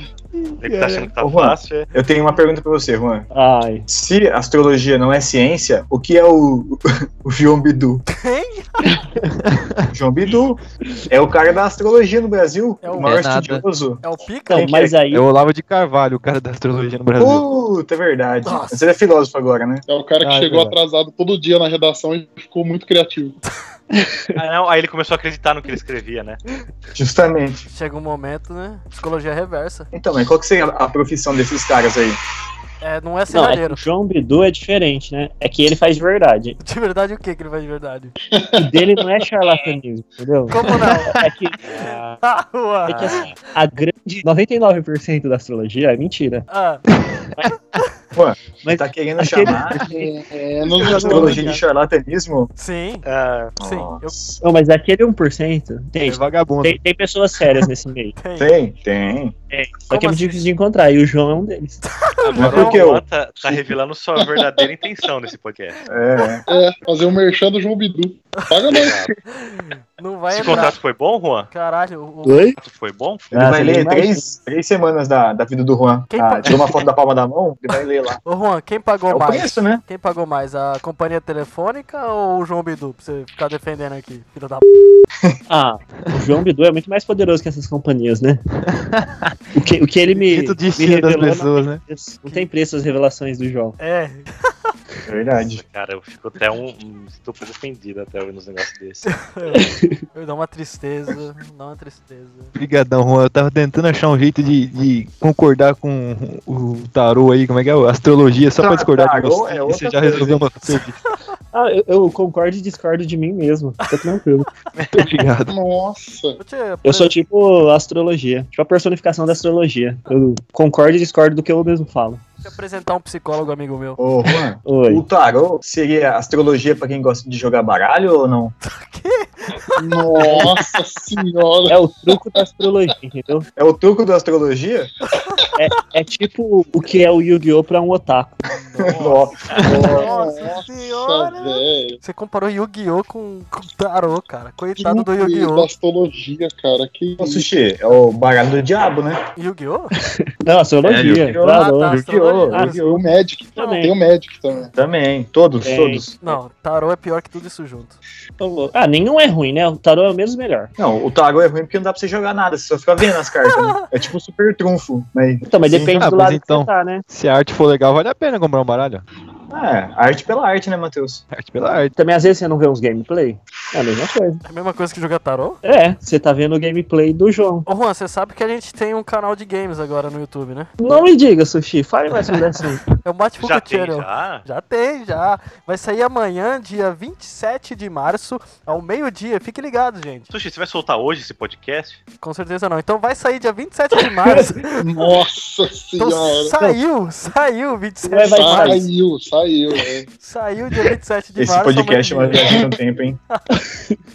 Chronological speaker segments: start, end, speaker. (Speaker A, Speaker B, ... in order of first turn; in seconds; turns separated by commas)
Speaker A: 0.6-1.9, Speaker B: 1.2-3.3, Speaker C: 3.3-3.9, Speaker B: 3.9-8.0, Speaker D: 8.1-8.9, Speaker E: 9.4-9.9, Speaker B: 9.9-14.9, Speaker D: 12.8-13.4, Speaker E: 13.0-13.6, Speaker D: 14.0-14.9, Speaker C: 14.5-15.2, Speaker E: 15.1-17.4, Speaker B: 17.2-19.8, Speaker D: 18.4-18.8, Speaker F: 19.9-23.4, Speaker E: 20.2-20.8, Speaker C: 23.9-24.4, Speaker A: 24.4-26.4, Speaker B: 26.9-27.6, Speaker D: 27.7-29.9, Speaker B: 29.9-32.2, Speaker D: 32.8-33.8, Speaker C: 33.3-36.6, Speaker D: 36.6-38.1, Speaker F: 38.3-39.0, Speaker C: 38.6-41.6, Speaker D: 40.5-43.2, Speaker A: 41.6-42.2, Speaker C: 42.9-46.5, Speaker A: 43.0-43.4, Speaker D: 46.5-46.9, Speaker B: 48.1-49.9, Speaker C: 48.6-50.1, Speaker F: 49.8-51.5, Speaker B: 50.7-52.5, Speaker D: 51.1-51.6, Speaker C: 51.1-51.4, Speaker D: 52.6-53.0, Speaker A: 53.0-53.5, Speaker D: 53.6-54.1, Speaker B: 53.6-54.4, Speaker C: 54.4-58.1, Speaker E: 56.0-56.8, Speaker D: 58.2-58.5, Speaker B: 58.4-59.3, Speaker C: 59.5-61.8, Speaker D: 59.9-60.5, Speaker D: 62.0-62.8, Speaker A: 62.2-65.8, Speaker B: 62.4-63.6, Speaker B: 65.9-66.4, Speaker F: 66.5-69.0, Speaker A: 68.7-69.1, Speaker D: 69.3-70.8, Speaker A: 70.3-71.5, Speaker D: 71.5-72.5, Speaker C: 72.2-72.6, Speaker A: 72.6-73.2, Speaker C: 73.3-74.3, Speaker B: 73.3-78.2, Speaker D: 76.1-76.6, Speaker D: 78.2-84.7, Speaker B: 79.1-79.8, Speaker C: 85.5-88.4, Speaker E: 88.6-89.3, Speaker C: 89.5-93.8, Speaker E: 90.2-91.8, Speaker D: 93.8-94.3, Speaker B: 95.0-95.6, Speaker A: 95.4-99.1, Speaker D: 99.1-102.5, Speaker C: 99.5-100.0, Speaker E: 102.5-111.0, Speaker B: 108.6-110.5, Speaker C: 111.5-114.5, Speaker E: 114.9-115.5, Speaker F: 115.5-116.4, Speaker D: 116.4-117.2, Speaker C: 116.8-122.2, Speaker D: 122.4-124.0, Speaker B: 124.0-128.5, Speaker C: 124.6-125.0, Speaker D: 128.6-130.5, Speaker F: 129.8-131.8, Speaker C: 131.7-133.4, Speaker B: 133.6-134.9, Speaker D: 135.2-135.4, Speaker C: 135.6-138.4, Speaker D: 138.5-145.7, Speaker B: 138.8-139.5, Speaker F: 139.6-142.0, Speaker F: 144.8-147.4, Speaker B: 147.2-149.2, Speaker D: 149.4-149.9, Speaker C: 150.4-152.8, Speaker B: 150.8-153.0, Speaker D: 151.4-152.8, Speaker F: 152.8-154.7, Speaker D: 153.6-153.9, Speaker C: 153.6-153.9, Speaker B: 154.7-156.4, Speaker C: 155.6-156.1, Speaker D: 156.2-158.0, Speaker C: 158.4-160.7, Speaker B: 160.8-166.1, Speaker C: 165.4-167.0, Speaker E: 166.0-169.0, Speaker B: 169.5-171.2, Speaker E: 171.3-171.9, Speaker C: 171.9-174.4, Speaker D: 174.4-175.6, Speaker C: 175.6-177.7, Speaker D: 177.7-180.7, Speaker C: 180.8-182.8, Speaker D: 183.0-190.3, Speaker A: 183.4-184.4, Speaker A: 190.3-192.0, Speaker D: 192.2-194.8, Speaker F: 194.8-196.6, Speaker D: 196.0-198.8, Speaker C: 198.0-198.8, Speaker F: 198.2-200.1, Speaker D: 200.2-202.6, Speaker B: 201.4-203.2